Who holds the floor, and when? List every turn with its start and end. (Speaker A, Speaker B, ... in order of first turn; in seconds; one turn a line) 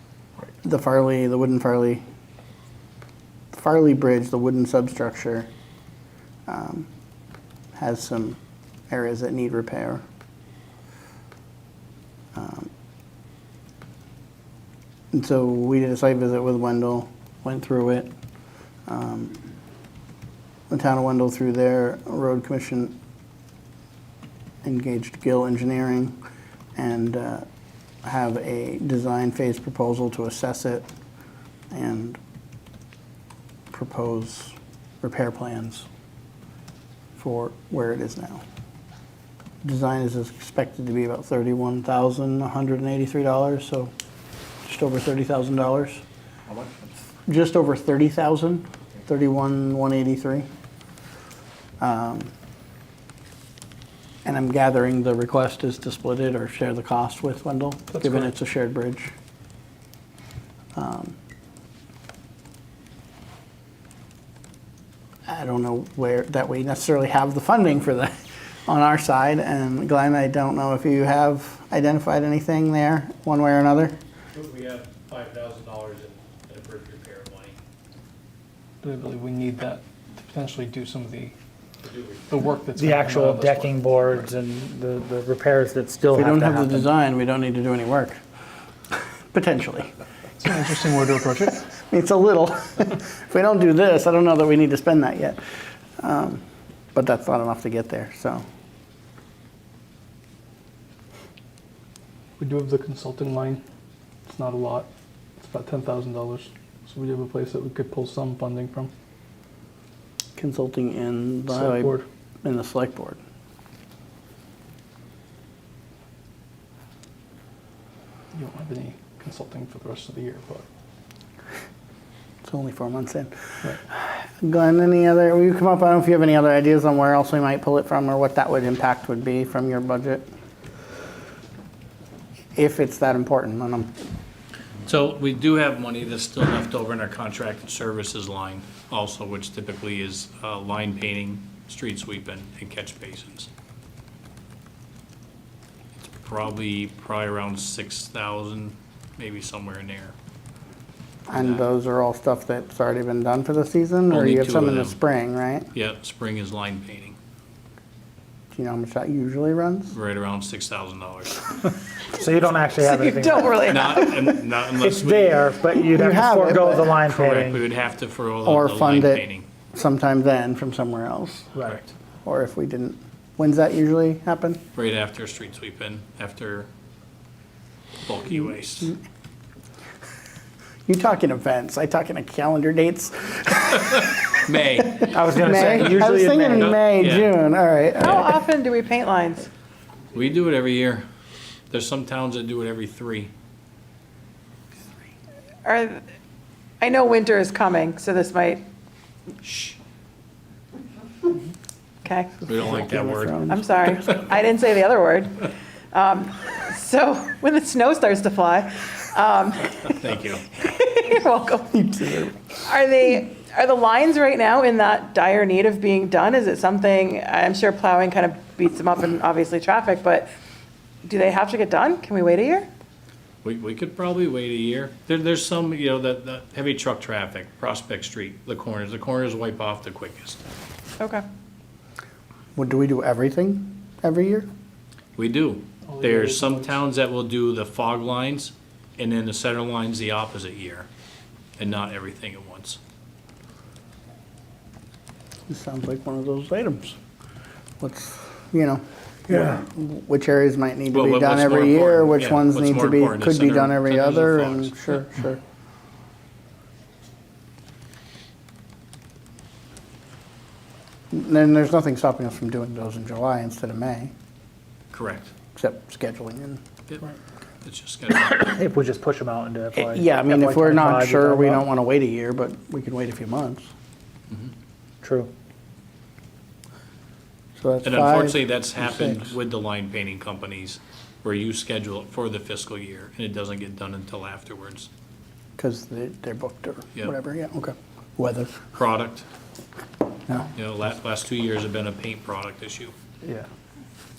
Speaker A: 0.6-2.0
Speaker A: 3.5-5.5
Speaker A: 6.5-6.9
Speaker A: 7.8-8.4
Speaker A: 8.9-10.0
Speaker A: 12.3-12.7
Speaker A: 15.1-18.1
Speaker A: 18.9-19.4
Speaker A: 20.7-23.0
Speaker A: 24.6-26.2
Speaker A: 26.8-27.5
Speaker A: 28.0-30.9
Speaker A: 31.7-32.2
Speaker A: 33.7-35.9
Speaker A: 37.2-38.4
Speaker A: 39.6-43.9
Speaker A: 44.6-46.0
Speaker B: 46.5-46.9
Speaker A: 47.3-50.5
Speaker A: 51.8-52.3
Speaker A: 54.2-59.1
Speaker C: 57.9-58.3
Speaker A: 60.8-61.1
Speaker A: 65.3-74.0
Speaker B: 74.3-77.6
Speaker C: 78.8-81.3
Speaker B: 81.8-82.4
Speaker C: 82.3-84.2
Speaker D: 82.8-86.9
Speaker A: 86.1-88.2
Speaker A: 89.3-89.9
Speaker C: 90.4-91.7
Speaker A: 91.6-95.4
Speaker A: 96.0-96.4
Speaker A: 96.9-98.4
Speaker C: 102.4-103.6
Speaker C: 104.3-104.9
Speaker C: 105.4-108.9
Speaker A: 110.4-113.2
Speaker C: 111.5-112.0
Speaker C: 118.3-120.6
Speaker A: 122.4-130.3
Speaker A: 132.6-133.9
Speaker B: 134.8-143.5
Speaker B: 146.0-150.1
Speaker A: 151.3-155.7
Speaker B: 151.3-151.7
Speaker B: 154.1-154.9
Speaker B: 155.7-157.2
Speaker A: 158.5-159.9
Speaker B: 159.9-161.6
Speaker D: 162.2-163.8
Speaker E: 162.8-164.3
Speaker B: 163.6-165.5
Speaker D: 164.8-167.6
Speaker A: 165.9-167.0
Speaker B: 167.1-169.4
Speaker A: 168.4-171.5
Speaker B: 171.6-171.9
Speaker A: 172.2-174.6
Speaker B: 174.7-176.7
Speaker B: 178.0-178.9
Speaker A: 180.9-184.4
Speaker B: 184.0-185.2
Speaker A: 184.9-188.4
Speaker D: 185.1-186.8
Speaker B: 186.5-187.3
Speaker E: 188.0-189.5
Speaker B: 190.1-191.0
Speaker B: 191.7-193.3
Speaker E: 195.7-196.0
Speaker E: 196.8-198.6
Speaker E: 199.4-199.8
Speaker E: 202.0-202.4
Speaker B: 202.4-203.6
Speaker A: 202.5-203.6
Speaker E: 203.5-211.8
Speaker B: 210.0-210.5
Speaker A: 211.7-212.4
Speaker E: 212.6-220.3
Speaker E: 221.0-222.7
Speaker B: 223.4-230.4
Speaker A: 232.6-234.5
Speaker B: 235.2-240.9
Speaker C: 235.9-236.7
Speaker B: 241.6-242.8
Speaker A: 245.5-247.0
Speaker A: 247.8-255.4
Speaker B: 250.9-254.8
Speaker A: 261.1-264.1
Speaker B: 264.9-265.3
Speaker A: 265.6-266.6
Speaker B: 267.6-268.4
Speaker D: 268.2-271.6
Speaker A: 269.8-273.7
Speaker D: 275.0-275.3
Speaker A: 277.6-279.4
Speaker B: 277.8-284.9
Speaker A: 285.6-288.7
Speaker B: 288.7-289.3
Speaker B: 290.6-292.9